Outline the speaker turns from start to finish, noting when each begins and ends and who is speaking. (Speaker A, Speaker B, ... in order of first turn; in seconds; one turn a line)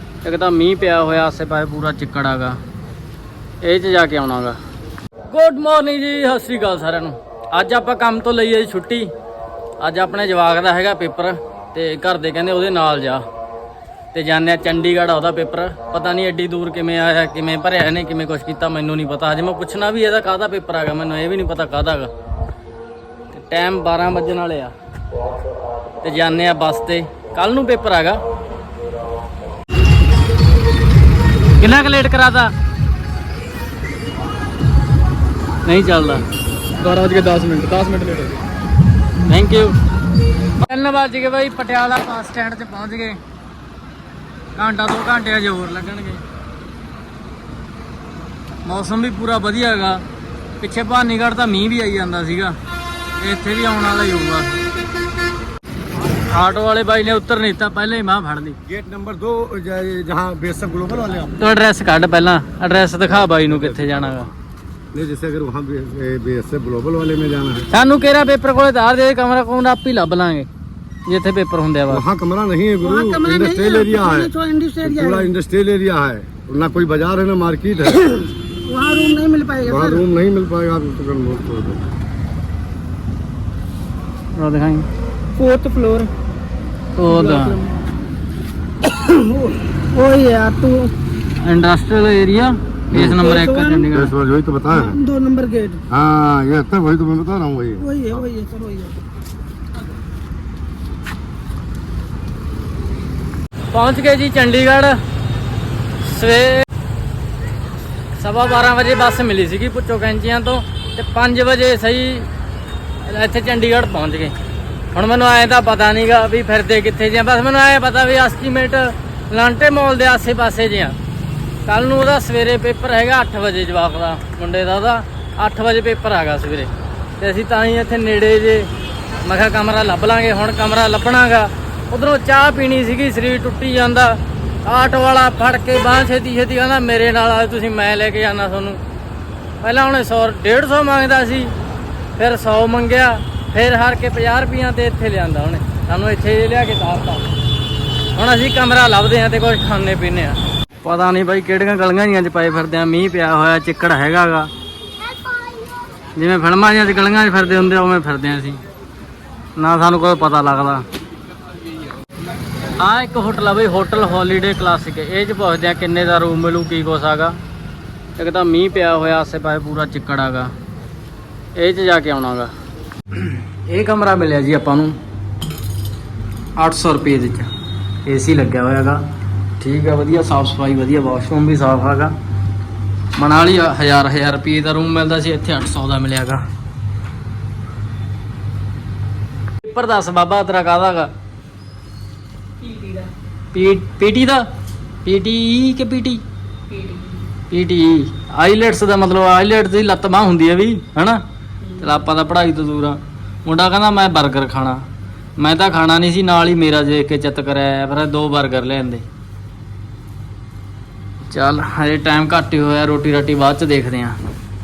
Speaker A: 0.2-2.6
Speaker A: 3.6-4.6
Speaker A: 5.3-9.1
Speaker A: 9.8-13.2
Speaker A: 14.1-22.1
Speaker A: 23.3-24.7
Speaker A: 26.0-28.2
Speaker A: 31.6-32.5
Speaker A: 35.6-36.2
Speaker A: 36.8-38.4
Speaker A: 39.3-39.8
Speaker A: 40.6-43.2
Speaker A: 44.5-46.2
Speaker A: 48.6-50.0
Speaker A: 50.6-52.6
Speaker A: 53.2-54.6
Speaker A: 56.1-58.6
Speaker B: 58.7-61.4
Speaker A: 61.4-64.3
Speaker B: 63.5-64.3
Speaker B: 64.9-67.7
Speaker A: 67.7-70.5
Speaker A: 71.1-72.0
Speaker B: 71.9-74.3
Speaker C: 72.8-75.3
Speaker B: 74.8-78.2
Speaker C: 78.7-80.0
Speaker B: 79.6-81.8
Speaker A: 84.3-84.9
Speaker C: 85.4-86.1
Speaker A: 87.0-87.6
Speaker C: 87.1-87.8
Speaker C: 88.9-90.9
Speaker A: 91.4-94.1
Speaker B: 92.9-93.3
Speaker C: 93.2-93.9
Speaker B: 93.9-95.0
Speaker C: 94.7-95.8
Speaker B: 95.9-97.9
Speaker C: 97.8-99.0
Speaker A: 103.7-105.0
Speaker A: 106.0-106.7
Speaker A: 108.2-112.3
Speaker A: 113.0-114.3
Speaker A: 114.9-121.0
Speaker A: 121.7-128.7
Speaker A: 129.2-138.8
Speaker A: 139.6-141.5
Speaker A: 142.2-147.2
Speaker A: 148.1-154.5
Speaker A: 156.2-158.6
Speaker A: 159.6-160.9
Speaker A: 162.8-167.4
Speaker A: 168.2-170.5
Speaker A: 171.6-172.5
Speaker A: 173.1-175.0
Speaker A: 176.6-177.5
Speaker A: 178.1-179.1
Speaker A: 179.6-182.2
Speaker A: 183.2-186.4
Speaker A: 189.6-191.1
Speaker A: 193.5-194.5
Speaker A: 195.0-196.2
Speaker A: 197.5-204.8
Speaker A: 205.4-209.1
Speaker A: 211.3-214.2